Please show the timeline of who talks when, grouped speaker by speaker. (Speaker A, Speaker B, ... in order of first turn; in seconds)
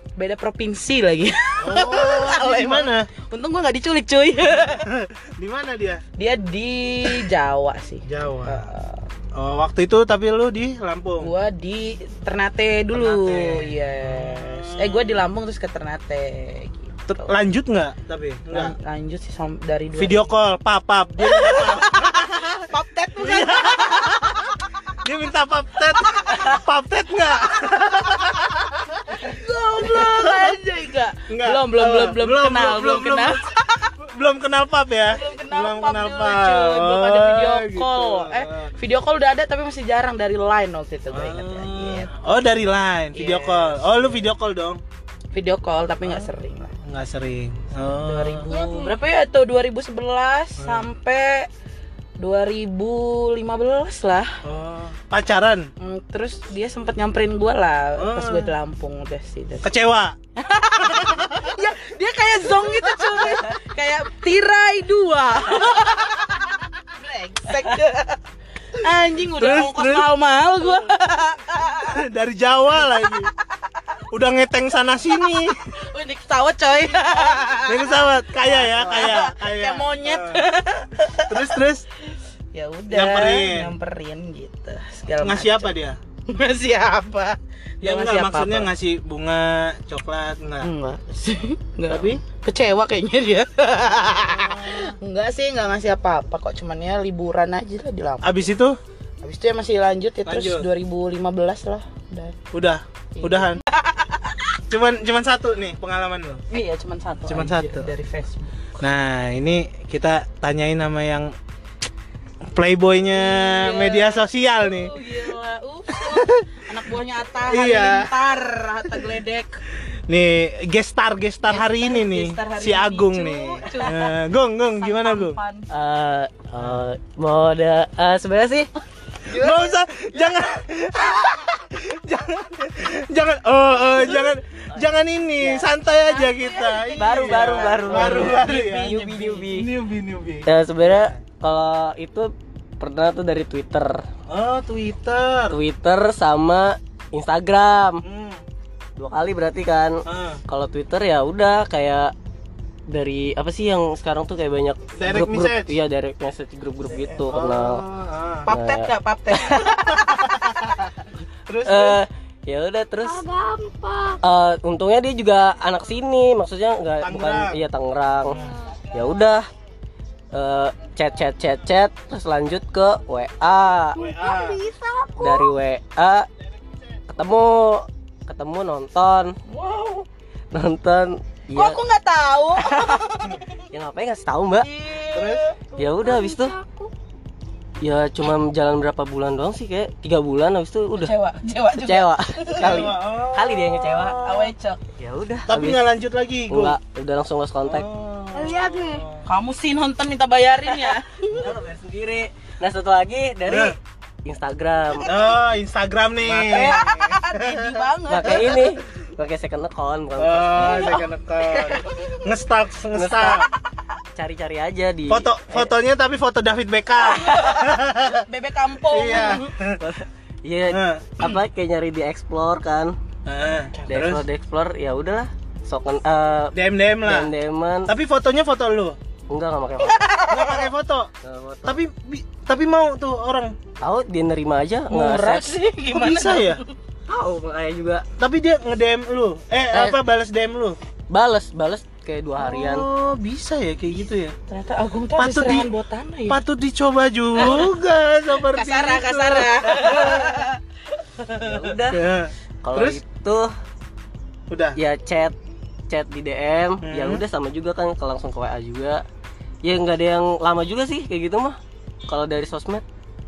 Speaker A: 0.2-4.9, 6.2-9.1, 11.2-17.3, 18.5-20.3, 21.2-24.5, 26.1-26.6, 29.1-33.9, 35.1-42.1, 43.1-44.3, 45.3-46.8, 47.9-51.5, 52.2-54.4, 55.8-59.7, 60.4-68.2, 68.8-72.0, 75.7-81.6, 82.5-85.8, 86.3-88.7, 90.6-98.4, 99.2-102.4, 103.2-104.2, 106.5-108.5, 113.2-119.6, 121.5-124.2, 124.8-125.7, 129.3-129.8, 136.1-139.5, 158.4-160.6, 179.5-180.1, 181.5-183.5, 184.6-185.7, 190.9-192.9, 193.9-194.8, 199.2-201.5, 206.2-208.6, 210.5-212.3, 217.1-219.5, 229.8-230.7, 234.9-236.7, 244.5-246.4, 247.4-247.7, 248.4-250.6
Speaker B: 1.6-3.1, 4.6-6.0, 8.1-8.6, 9.3-11.3, 12.9-15.2, 17.1-18.7, 20.0-30.6, 31.3-38.7, 41.1-44.8, 46.8-48.9, 50.6-50.9, 54.4-55.7, 58.0-58.5, 59.6-60.2, 60.9-61.5, 69.4-70.1, 71.8-73.3, 74.1-75.7, 77.6-80.5, 81.3-81.8, 82.9-83.7, 85.2-86.0, 87.8-90.7, 91.9-92.2, 94.0-94.8, 98.2-98.8, 100.3-100.7, 102.5-103.6, 104.7-106.5, 107.3-107.9, 108.8-111.3, 112.5-115.0, 115.9-116.4, 117.5-118.1, 119.9-125.4, 129.3-141.2, 144.3-145.6, 148.0-148.4, 150.1-150.4, 155.0-155.8, 157.3-158.5, 160.0-160.8, 161.5-162.0, 167.0-167.6, 168.3-168.6, 173.9-174.7, 185.1-185.4, 192.6-193.7, 195.5-196.8, 197.7-199.2, 203.5-203.8, 205.0-207.7, 210.2-213.5, 215.1-218.3, 218.9-219.8, 220.7-221.1, 223.3-224.2, 226.5-227.3, 227.9-229.0, 230.3-231.1, 231.7-233.6, 235.9-236.6, 238.2-240.8, 242.4-244.4, 245.2-245.7, 246.3-250.3, 251.9-253.0, 254.5-254.8, 256.8-257.2
Speaker C: 125.7-128.7, 137.0-139.7, 140.5-144.1, 145.5-148.0, 149.0-152.1, 152.9-157.8, 158.5-158.9, 161.6-163.3, 164.1-169.5, 170.3-174.0, 175.2-176.3, 177.1-179.4, 180.5-181.8, 182.7-183.1, 183.7-184.7, 185.8-186.6, 187.8-191.1, 191.8-195.8, 196.5-197.9, 201.2-205.1, 206.5-206.8, 208.1-211.0, 212.9-213.5, 214.2-215.4, 219.8-223.0, 223.9-227.9, 229.3-230.1, 231.2-231.8, 233.8-235.6, 237.1-238.1, 239.7-240.0, 241.1-242.9, 251.3-252.1, 252.6-253.5, 254.8-255.4, 255.9-259.0, 259.6-262.8
Speaker D: 163.2-164.2, 174.0-175.5, 186.0-186.3, 198.3-199.0